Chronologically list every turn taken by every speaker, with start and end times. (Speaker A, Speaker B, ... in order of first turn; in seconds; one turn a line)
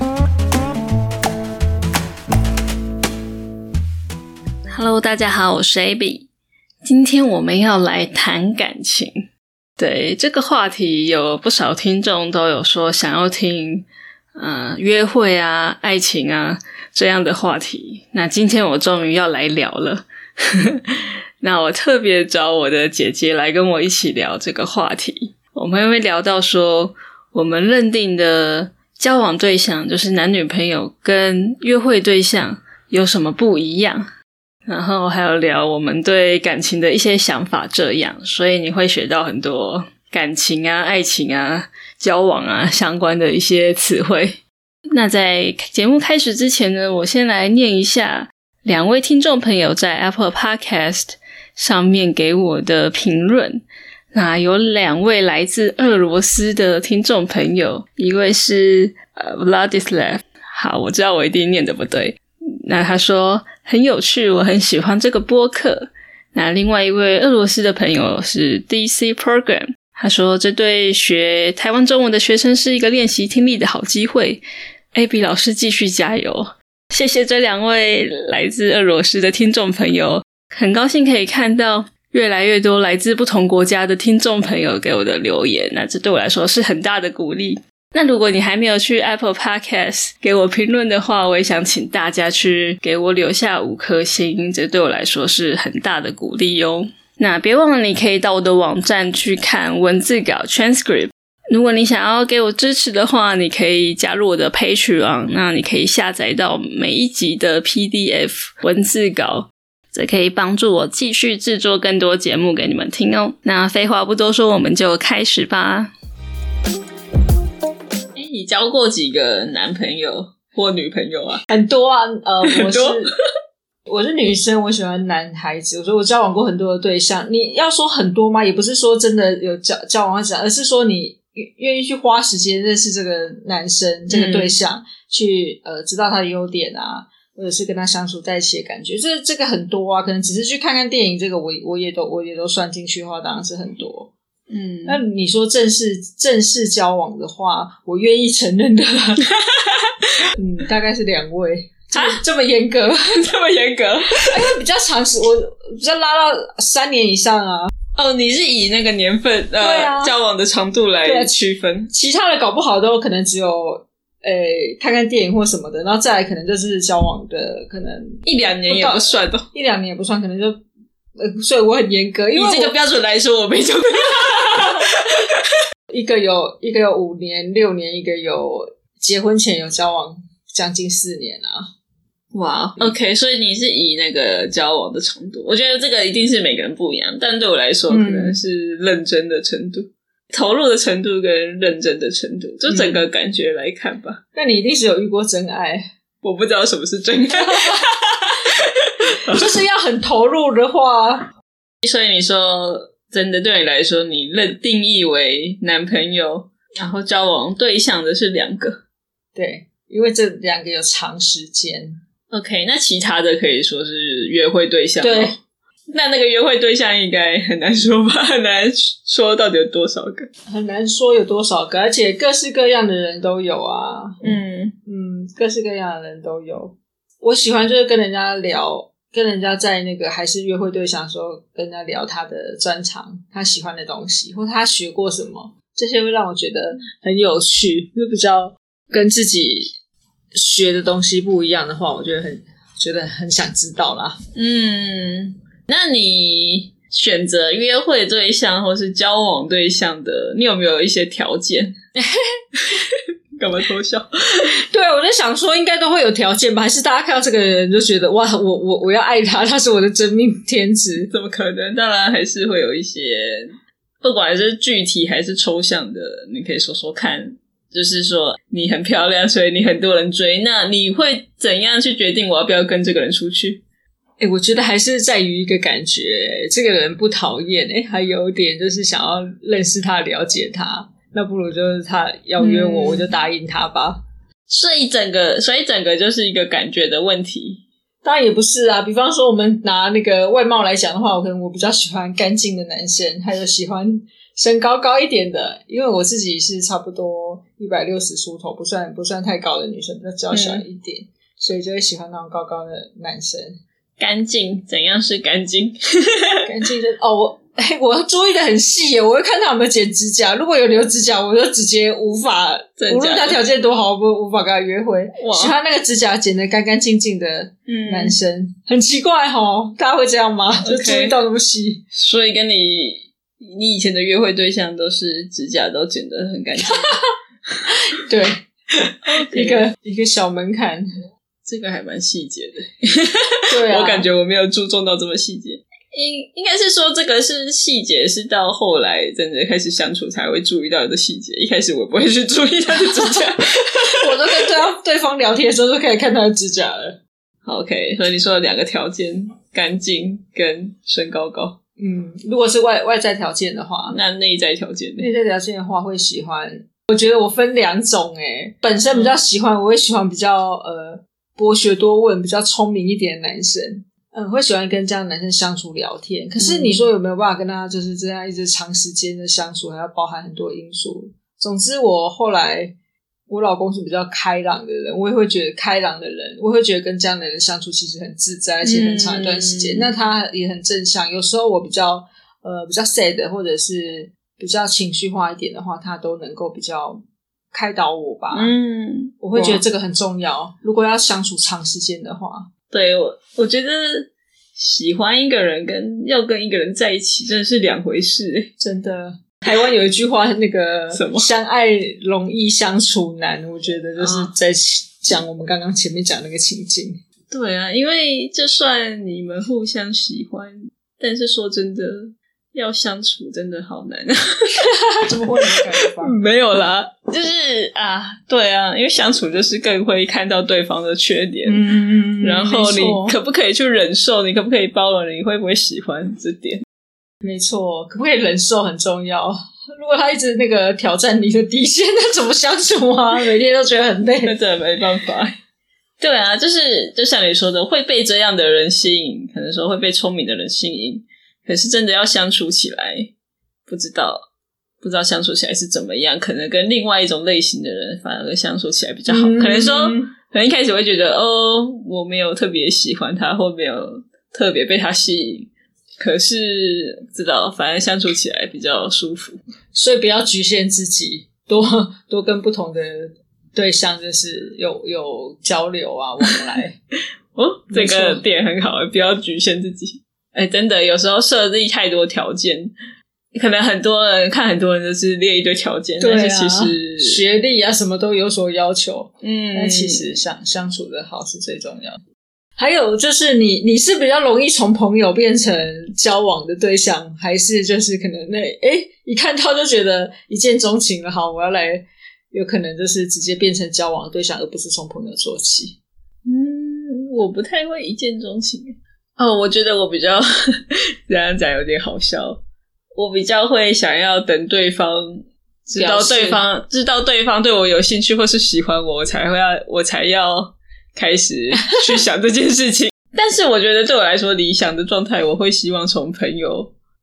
Speaker A: 4.7-6.3
Speaker A: 6.8-9.2
Speaker A: 9.8-34.1
Speaker A: 34.7-44.4
Speaker A: 44.9-74.4
Speaker A: 74.9-115.9
Speaker A: 118.2-121.4
Speaker B: 121.5-123.1
Speaker A: 122.5-123.1
Speaker B: 123.9-144.1
Speaker A: 134.1-134.6
Speaker A: 144.5-145.0
Speaker B: 144.9-149.2
Speaker A: 149.3-150.0
Speaker B: 150.4-153.2
Speaker A: 153.1-154.4
Speaker B: 154.3-157.7
Speaker A: 157.9-161.9
Speaker B: 159.6-160.1
Speaker B: 161.1-161.3
Speaker B: 161.9-170.6
Speaker A: 168.2-169.5
Speaker B: 171.2-172.8
Speaker A: 172.3-175.4
Speaker B: 175.9-181.7
Speaker A: 182.3-194.2
Speaker B: 187.9-188.4
Speaker B: 192.7-193.1
Speaker B: 194.3-195.9
Speaker A: 196.2-199.5
Speaker B: 197.3-197.8
Speaker B: 199.3-201.3
Speaker A: 201.8-208.8
Speaker B: 209.3-212.0
Speaker A: 212.3-215.3
Speaker B: 215.0-215.3
Speaker A: 215.9-220.3
Speaker B: 220.5-224.3
Speaker A: 224.2-224.8
Speaker B: 224.9-239.7
Speaker B: 240.4-244.2
Speaker A: 244.3-251.8
Speaker B: 251.9-252.2
Speaker A: 252.6-254.4
Speaker B: 254.7-261.1
Speaker A: 261.1-273.6
Speaker B: 274.2-284.0
Speaker A: 282.4-283.1
Speaker A: 284.5-287.6
Speaker B: 288.0-303.6
Speaker A: 300.3-300.6
Speaker A: 304.0-306.5
Speaker B: 306.4-321.8
Speaker A: 312.8-313.4
Speaker A: 315.2-315.5
Speaker A: 317.7-318.2
Speaker A: 320.6-321.2
Speaker A: 321.9-327.0
Speaker B: 328.0-330.9
Speaker A: 329.1-329.6
Speaker A: 331.4-344.5
Speaker B: 333.5-334.1
Speaker B: 342.9-343.2
Speaker B: 344.0-347.0
Speaker A: 347.4-351.6
Speaker B: 351.8-354.0
Speaker A: 353.9-355.1
Speaker B: 355.0-372.7
Speaker A: 366.4-366.9
Speaker B: 373.3-387.0
Speaker A: 378.6-379.9
Speaker B: 387.5-388.5
Speaker A: 388.3-389.6
Speaker B: 389.2-392.5
Speaker A: 392.7-398.5
Speaker B: 398.6-407.0
Speaker A: 400.9-401.3
Speaker A: 404.0-404.3
Speaker A: 407.3-414.7
Speaker B: 414.6-416.2
Speaker A: 416.0-426.6
Speaker B: 421.5-423.2
Speaker B: 427.2-434.3
Speaker A: 434.2-435.3
Speaker A: 436.0-443.1
Speaker A: 443.7-444.2
Speaker A: 444.8-455.5
Speaker B: 449.1-450.1
Speaker A: 456.0-459.4
Speaker B: 459.7-466.8
Speaker A: 467.4-472.7
Speaker B: 467.7-468.2
Speaker A: 473.4-477.2
Speaker B: 476.0-482.0
Speaker A: 479.2-480.2
Speaker B: 482.6-495.8
Speaker A: 496.3-502.4
Speaker A: 502.9-516.7
Speaker B: 505.8-506.4